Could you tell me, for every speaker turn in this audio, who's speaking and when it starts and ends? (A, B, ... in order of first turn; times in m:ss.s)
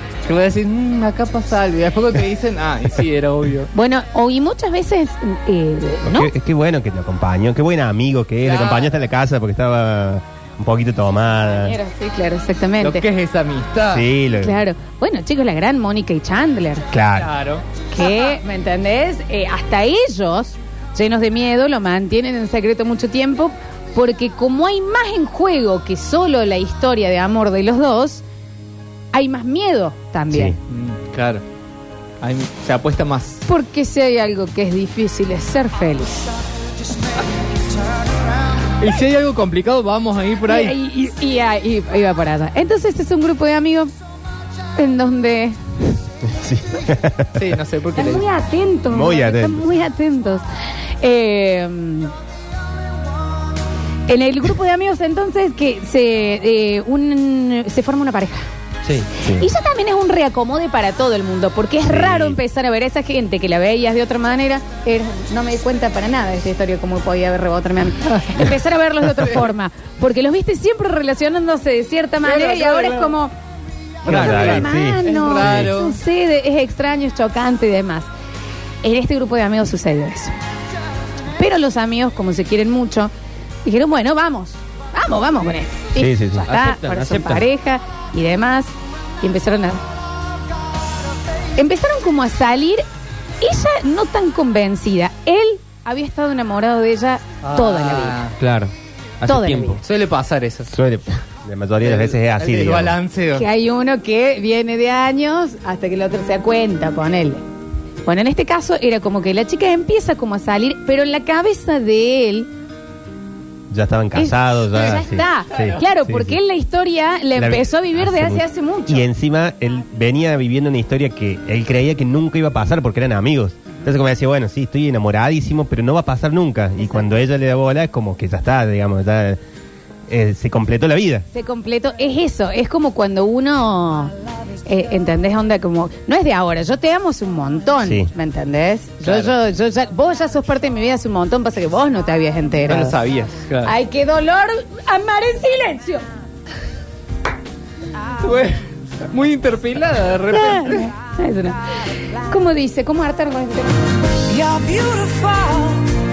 0:00.2-0:03.7 A
0:03.7-0:06.3 B
0:06.0-0:11.8 C
0:08.4-0:08.9 A
0:11.5-0:13.0 B
0:12.8-0:14.1 A
0:13.9-0:14.6 C
0:14.4-0:16.9 B
0:16.9-0:17.3 C
0:17.2-0:17.6 A
0:17.9-0:28.2 B
0:29.1-0:30.6 B
0:30.3-0:30.6 C
0:30.7-0:31.4 A
0:32.2-0:33.4 A
0:33.4-0:36.2 B
0:38.8-0:40.7 A
0:40.5-0:43.9 B
0:44.7-0:45.6 B
0:46.2-0:47.5 C
0:47.4-0:48.3 A
0:48.0-0:50.4 B
0:48.9-0:49.7 C
0:51.0-0:52.1 B
0:54.1-0:58.4 B
0:59.4-1:13.3 B
1:01.8-1:02.4 C
1:12.2-1:13.2 A
1:14.0-1:15.7 C
1:14.0-1:16.0 A
1:14.0-1:18.1 B
1:18.8-1:20.3 B
1:21.4-1:23.1 B
1:23.6-1:29.8 B
1:26.0-1:26.5 C
1:26.5-1:27.4 D
1:31.6-1:32.8 B
1:33.4-1:38.2 B
1:37.4-1:38.4 A
1:38.4-1:39.8 D
1:39.2-1:39.8 B
1:39.8-1:40.7 A
1:40.7-1:43.0 C
1:41.8-1:43.5 A
1:43.3-1:47.4 B
1:48.0-1:52.5 B
1:53.7-1:56.4 C
1:54.1-1:59.1 B
1:57.3-2:09.4 C
2:10.1-2:11.2 C
2:11.3-2:14.1 B
2:14.6-2:22.9 B
2:17.8-2:18.1 C
2:19.0-2:19.3 A
2:22.6-2:23.7 A
2:23.6-2:26.0 B
2:28.2-2:30.9 A
2:30.3-2:31.6 B
2:32.3-2:33.7 B